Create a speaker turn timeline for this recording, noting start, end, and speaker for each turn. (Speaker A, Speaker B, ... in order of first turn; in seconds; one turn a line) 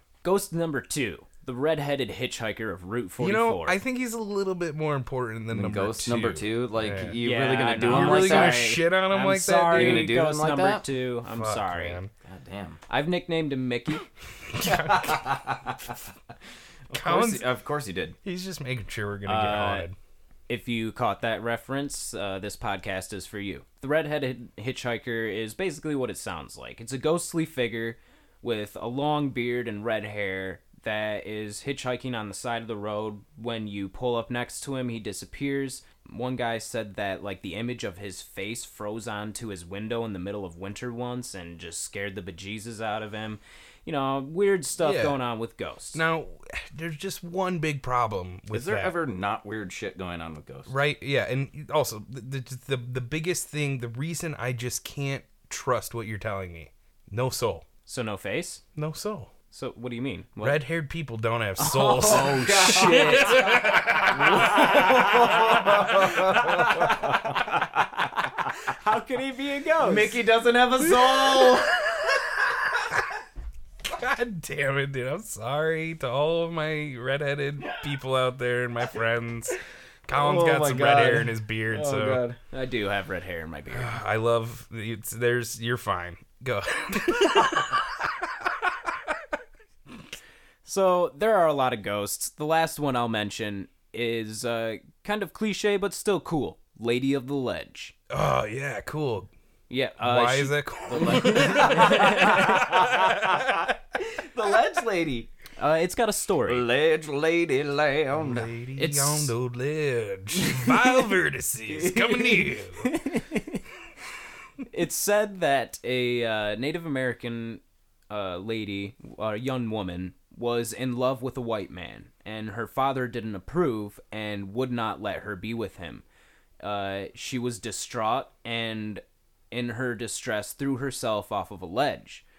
Speaker A: 0.2-3.8
Speaker B: 3.2-7.2
Speaker C: 5.5-8.7
Speaker A: 7.2-12.0
Speaker B: 7.8-10.1
Speaker C: 9.7-10.8
Speaker B: 11.3-12.1
Speaker C: 12.2-12.8
Speaker A: 12.9-14.1
Speaker B: 14.5-15.3
Speaker C: 14.6-16.0
Speaker C: 16.9-18.1
Speaker B: 16.9-17.4
Speaker B: 18.2-19.9
Speaker A: 19.2-19.9
Speaker A: 20.5-46.0
Speaker B: 44.8-45.2
Speaker B: 45.9-48.9
Speaker C: 48.5-50.7
Speaker B: 50.7-57.6
Speaker A: 57.9-58.6
Speaker B: 58.8-59.3
Speaker A: 59.5-60.6
Speaker B: 60.4-67.2
Speaker A: 61.6-67.6
Speaker C: 62.0-68.5
Speaker A: 68.5-70.2
Speaker C: 69.8-72.6
Speaker B: 71.1-72.1
Speaker B: 73.8-82.2
Speaker C: 80.1-82.4
Speaker A: 82.5-84.0
Speaker B: 83.7-88.9
Speaker A: 90.6-97.9
Speaker B: 98.1-99.3
Speaker A: 99.7-102.8
Speaker B: 100.0-103.6
Speaker C: 100.9-105.3
Speaker A: 105.6-106.6
Speaker C: 106.5-108.5
Speaker B: 108.1-113.0
Speaker A: 108.8-109.3
Speaker A: 110.5-110.8
Speaker A: 111.8-113.6
Speaker A: 114.6-126.0
Speaker A: 126.6-132.2